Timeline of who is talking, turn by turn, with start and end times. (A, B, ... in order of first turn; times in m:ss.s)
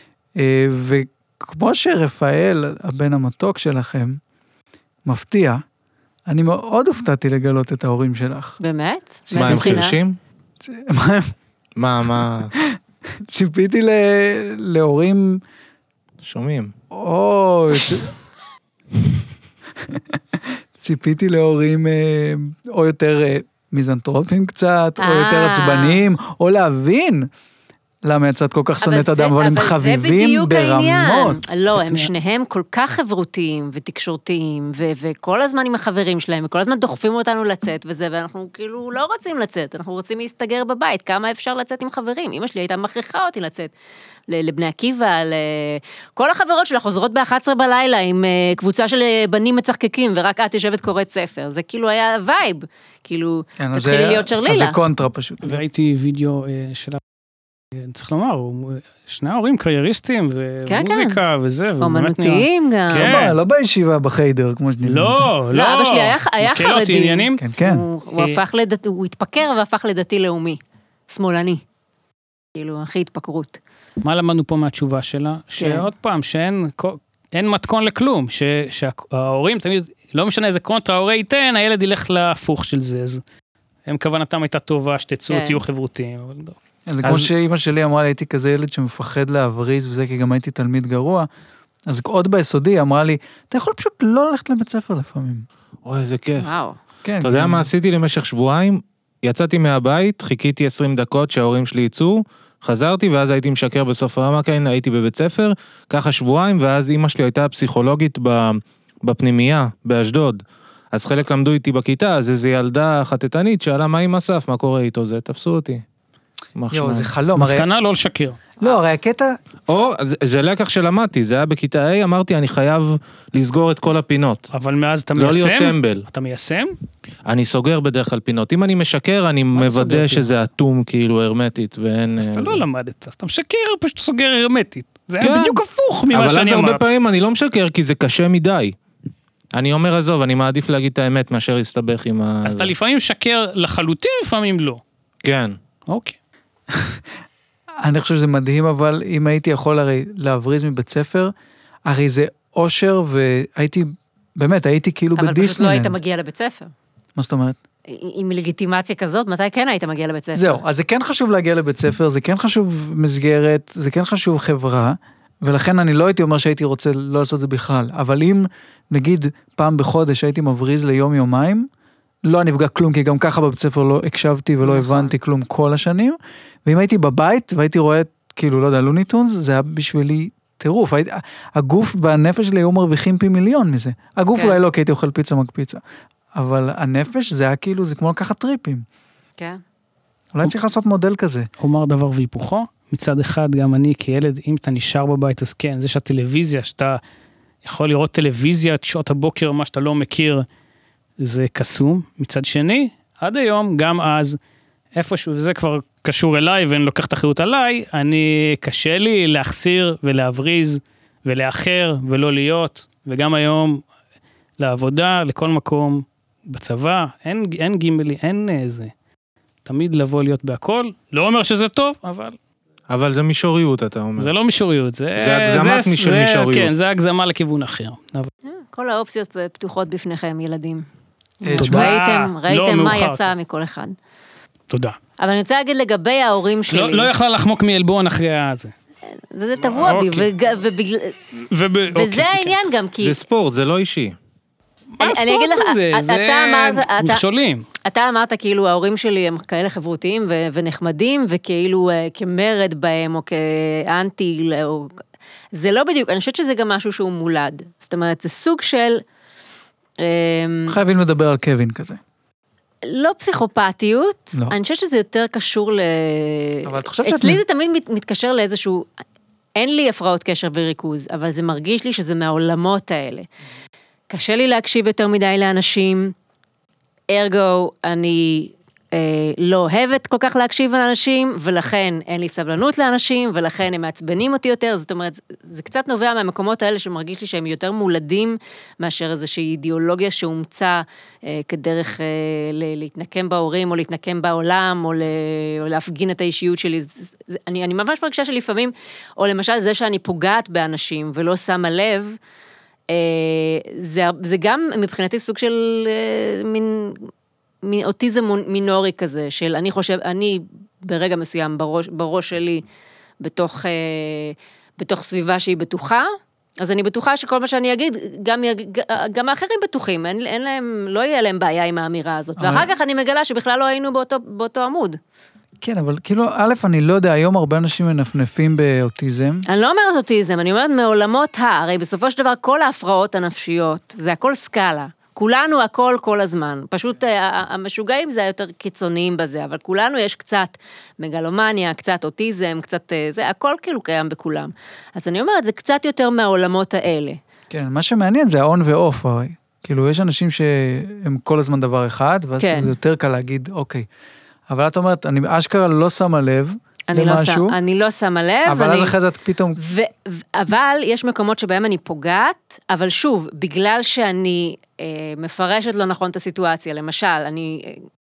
0:00.4-0:04.2 A
0:05.0-0:05.6 A
0:06.3-0:08.6 A
0:08.6-0:10.0 B
0:09.3-0:09.9 A
0:09.3-0:10.2 C
0:10.6-0:11.3 A
0:11.8-0:12.5 C
0:12.5-0:15.4 A
0:16.2-0:16.7 C
0:16.9-0:18.1 A
0:19.8-0:27.3 A
0:25.0-0:26.0 B
0:28.0-0:31.4 A
0:28.8-0:43.7 B
0:44.3-0:54.8 B
0:53.6-0:55.6 A
0:55.4-0:57.0 D
0:57.7-1:03.4 D
1:00.7-1:01.2 B
1:01.8-1:03.1 B
1:03.0-1:05.3 A
1:04.8-1:07.4 D
1:05.5-1:11.6 B
1:07.4-1:07.8 A
1:12.6-1:13.6 B
1:14.0-1:23.2 D
1:15.6-1:15.9 B
1:23.8-1:26.6 D
1:25.3-1:25.6 B
1:26.9-1:31.3 A
1:27.0-1:27.3 C
1:31.9-1:35.4 A
1:35.8-1:36.6 C
1:36.4-1:36.8 B
1:37.0-1:37.7 A
1:37.2-1:50.4 C
1:50.9-1:55.8 C
1:56.6-1:57.1 C
1:56.7-1:57.7 A
1:57.3-1:58.5 D
1:58.6-1:59.3 A
1:59.7-2:04.5 C
2:04.5-2:06.8 D
2:05.2-2:06.0 C
2:07.2-2:12.6 C
2:09.5-2:10.3 D
2:12.2-2:16.8 D
2:15.2-2:15.6 C
2:16.1-2:18.7 C
2:19.5-2:22.7 C
2:22.4-2:24.8 D
2:25.2-2:25.6 C
2:25.9-2:26.2 D
2:26.7-2:27.0 A
2:27.8-2:31.3 A
2:31.9-2:35.9 A
2:35.2-2:36.7 B
2:37.2-2:37.6 A
2:37.9-2:40.6 B
2:40.3-2:51.7 A
2:52.2-3:05.8 A
2:54.7-2:55.1 B
3:04.3-3:04.6 B
3:06.3-3:08.8 A
3:10.3-3:11.5 A
3:11.6-3:17.0 D
3:17.6-3:20.4 D
3:21.2-3:24.4 D
3:24.9-3:33.8 D
3:34.6-3:38.9 D
3:39.6-3:42.4 D
3:42.9-3:44.3 C
3:44.2-3:48.3 D
3:45.2-3:46.7 C
3:48.4-3:50.8 B
3:51.4-3:52.0 A
3:51.4-3:53.9 B
3:51.6-3:53.3 D
3:54.7-3:55.0 D
3:55.2-3:57.1 B
3:56.7-3:58.7 D
3:59.3-4:01.1 B
3:59.8-4:00.3 D
4:01.5-4:02.5 D
4:01.9-4:03.2 B
4:03.0-4:04.2 C
4:04.9-4:07.6 D
4:05.0-4:07.2 B
4:07.8-4:14.9 B
4:15.5-4:19.0 B
4:20.0-4:20.8 B
4:20.7-4:22.0 A
4:22.8-4:28.9 B
4:26.6-4:27.4 A
4:29.6-4:33.3 B
4:34.1-4:36.1 B
4:37.1-5:02.2 B
5:02.9-5:07.1 B
5:07.6-5:12.6 B
5:13.2-5:16.1 B
5:16.6-5:25.0 B
5:22.4-5:22.7 A
5:25.6-5:29.4 A
5:29.5-5:47.2 B
5:47.5-5:53.9 A
5:52.4-5:52.7 B
5:54.5-5:57.6 A
5:56.9-5:58.9 B
5:58.4-5:59.6 A
5:59.6-6:07.8 B